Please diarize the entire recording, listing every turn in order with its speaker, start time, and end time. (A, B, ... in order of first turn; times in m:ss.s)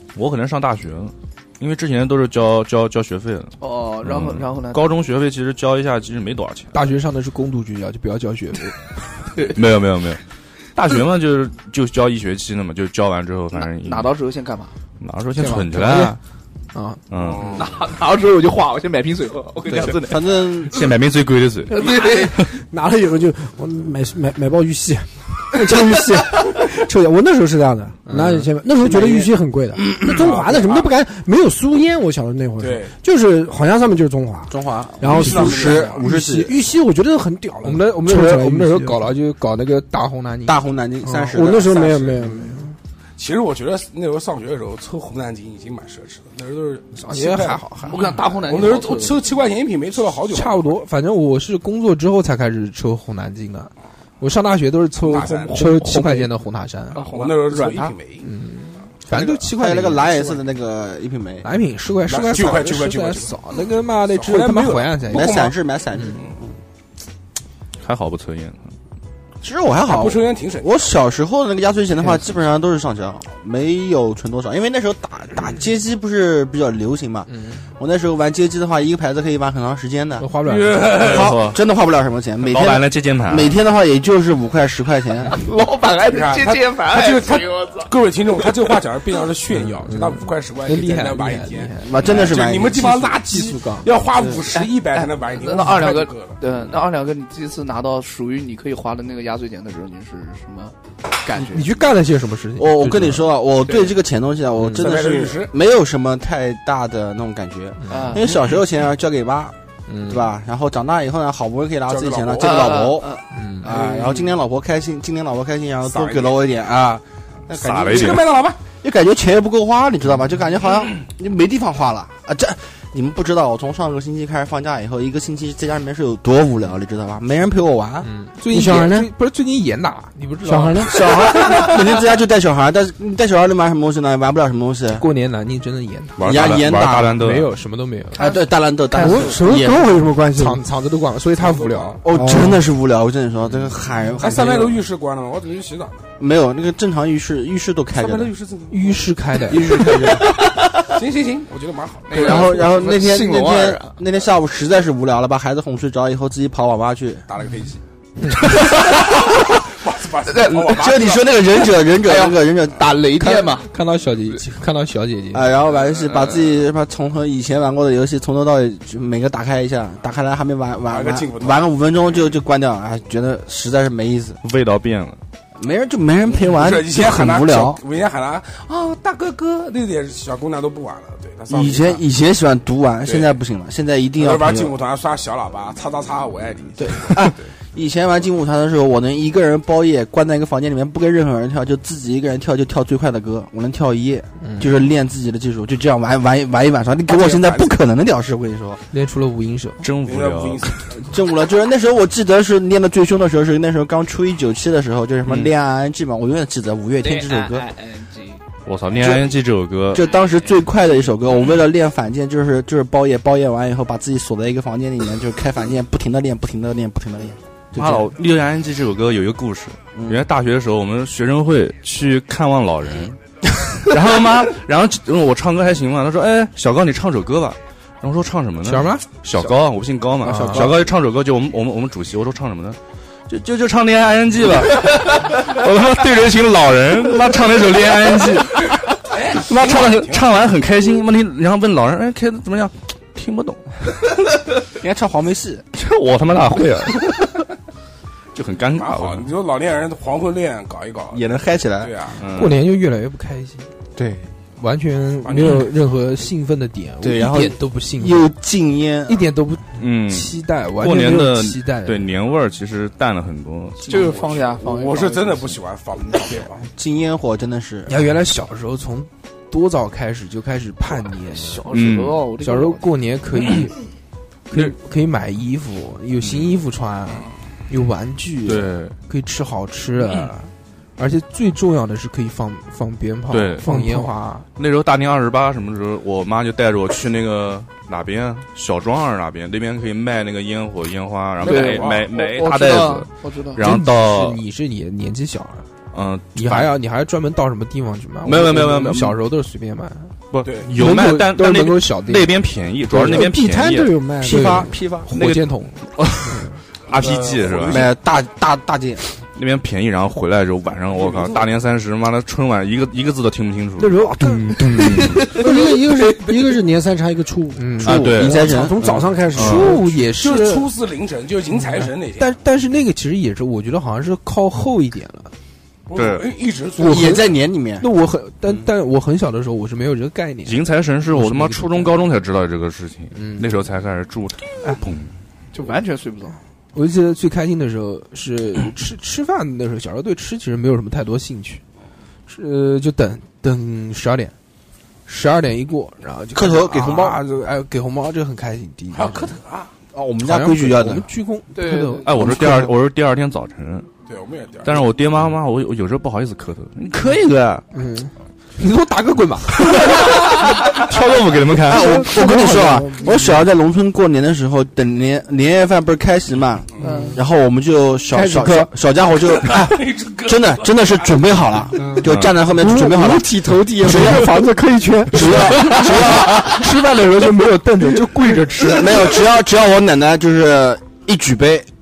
0:00.2-0:06.8 A
0:03.6-0:04.9 B
0:06.7-0:08.8 C
0:09.4-0:10.2 A
0:10.8-0:14.1 A
0:13.6-0:14.7 B
0:15.0-0:16.2 A
0:15.4-0:16.2 C
0:16.7-0:17.0 C
0:17.1-0:17.7 A
0:17.2-0:17.7 D
0:17.6-0:20.8 B
0:19.7-0:20.8 E
0:20.7-0:22.5 A
0:21.7-0:22.4 B
0:21.8-0:39.1 F
0:28.1-0:28.5 C
0:28.8-0:29.3 E
0:30.1-0:30.9 D
0:32.6-0:32.9 D
0:34.5-0:36.6 E
0:35.1-0:36.0 D
0:37.6-0:40.6 C
0:40.5-0:41.9 E
0:41.0-0:42.8 F
0:41.7-0:42.2 D
0:43.2-0:50.8 D
0:47.0-0:48.1 C
0:47.9-0:49.2 B
0:50.3-0:57.0 C
0:55.0-0:55.8 D
0:55.6-0:56.2 F
0:56.9-0:58.0 B
0:57.0-0:58.3 D
0:58.2-1:00.4 C
0:59.1-0:59.4 D
0:59.4-1:01.5 E
1:01.4-1:06.1 C
1:02.1-1:05.5 D
1:05.1-1:06.5 E
1:07.8-1:08.7 A
1:09.4-1:20.3 E
1:09.9-1:10.9 D
1:17.3-1:17.6 C
1:20.2-1:21.2 C
1:20.4-1:21.3 D
1:20.9-1:25.4 E
1:21.0-1:21.6 A
1:22.5-1:23.6 A
1:25.3-1:28.6 B
1:26.1-1:36.4 D
1:29.6-1:32.1 C
1:31.8-1:33.2 E
1:33.2-1:33.9 C
1:34.5-1:41.8 B
1:41.4-1:43.3 C
1:42.6-1:49.6 E
1:43.7-1:44.0 B
1:44.8-1:45.5 D
1:47.9-1:48.2 C
1:47.9-1:48.3 B
1:49.9-1:50.3 C
1:50.1-2:08.1 E
1:51.9-1:52.8 D
1:52.4-1:54.2 B
1:53.3-1:53.7 C
1:55.9-1:56.4 D
1:57.6-1:58.4 A
1:57.7-1:58.6 D
2:08.0-2:11.0 C
2:08.5-2:09.1 F
2:10.4-2:11.6 F
2:10.8-2:15.0 E
2:14.9-2:16.7 C
2:16.2-2:17.5 A
2:16.2-2:17.2 E
2:17.2-2:18.2 C
2:18.2-2:18.4 B
2:18.2-2:20.0 E
2:18.9-2:20.6 F
2:20.4-2:22.0 C
2:21.4-2:22.0 D
2:22.0-2:24.8 E
2:22.1-2:22.6 F
2:24.2-2:26.0 D
2:26.2-2:28.3 E
2:27.9-2:30.3 D
2:28.7-2:30.0 C
2:29.5-2:30.3 E
2:29.8-2:30.9 B
2:30.9-2:32.7 D
2:32.1-2:34.0 B
2:32.1-2:37.3 E
2:37.3-2:37.8 D
2:38.2-2:38.5 C
2:38.4-2:39.3 B
2:39.0-2:41.3 D
2:40.3-2:40.7 B
2:40.5-2:43.0 E
2:41.6-2:43.7 B
2:43.2-2:45.5 C
2:45.3-2:54.4 E
2:50.9-2:51.6 D
2:54.4-2:55.2 A
2:55.6-2:57.8 E
2:56.5-3:02.0 D
3:01.5-3:04.8 E
3:03.0-3:03.4 D
3:04.2-3:07.4 D
3:06.8-3:18.8 E
3:14.4-3:14.7 C
3:17.1-3:17.7 D
3:18.9-3:19.9 C
3:19.8-3:20.7 A
3:20.0-3:21.0 D
3:20.9-3:27.7 E
3:27.0-3:28.4 B
3:28.7-3:30.0 A
3:28.9-3:29.3 E
3:29.9-3:37.4 E
3:30.3-3:30.6 B
3:37.7-3:43.2 A
3:40.0-3:40.2 E
3:43.7-4:03.8 A
3:48.6-3:49.1 C
3:50.2-3:50.8 C
3:50.3-3:50.9 E
3:59.1-4:00.4 D
4:04.8-4:05.6 E
4:05.7-4:07.4 A
4:08.3-4:09.3 A
4:08.8-4:11.2 D
4:11.1-4:12.0 E
4:11.8-4:12.2 D
4:12.2-4:12.6 A
4:12.3-4:13.7 C
4:14.6-4:18.3 C
4:15.2-4:15.6 D
4:17.0-4:19.2 E
4:19.1-4:22.0 C
4:19.8-4:24.0 A
4:23.8-4:25.6 B
4:23.9-4:26.7 D
4:26.7-4:28.0 E
4:27.9-4:31.7 C
4:31.0-4:32.9 B
4:31.7-4:32.2 A
4:32.4-4:33.8 C
4:34.5-4:44.5 C
4:36.2-4:36.5 A
4:38.4-4:39.0 A
4:43.3-4:54.4 A
4:51.4-4:52.2 D
4:51.4-4:53.6 B
4:53.6-4:55.7 C
4:55.9-4:56.8 A
4:56.4-5:00.2 C
4:58.2-4:59.2 A
5:00.3-5:07.9 A
5:00.4-5:00.8 D
5:00.7-5:03.3 C
5:03.0-5:04.7 F
5:04.2-5:05.8 C
5:04.3-5:05.1 E
5:06.9-5:07.9 D
5:07.7-5:09.0 E
5:09.4-5:15.5 A
5:10.9-5:11.5 D
5:13.8-5:19.8 F
5:14.6-5:15.2 C
5:17.6-5:18.1 C
5:17.8-5:19.8 A
5:17.8-5:19.0 E
5:19.3-5:20.7 C
5:20.1-5:22.3 D
5:21.8-5:25.3 C
5:25.9-5:27.2 D
5:26.0-5:26.3 A
5:26.8-5:27.2 F
5:26.8-5:27.9 E
5:27.8-5:32.1 C
5:30.5-5:35.1 A
5:33.1-5:33.5 C
5:35.5-5:36.4 B
5:36.7-5:41.6 C
5:42.3-5:44.3 C
5:45.1-5:49.3 C
5:46.3-5:47.2 E
5:48.9-5:49.7 D
5:49.9-5:51.1 E
5:50.2-5:52.3 C
5:51.6-5:52.2 B
5:52.0-5:53.9 A
5:52.2-5:52.7 E
5:54.1-5:54.9 D
5:54.6-5:57.6 A
5:57.7-6:00.0 C
5:59.6-6:02.1 A
6:01.6-6:14.4 E
6:01.7-6:03.4 F
6:06.8-6:07.2 D
6:06.8-6:07.2 B
6:08.1-6:08.7 F
6:09.2-6:11.4 D
6:11.8-6:18.8 F
6:12.1-6:12.4 A
6:15.1-6:16.5 E
6:15.6-6:19.0 C
6:18.7-6:21.7 E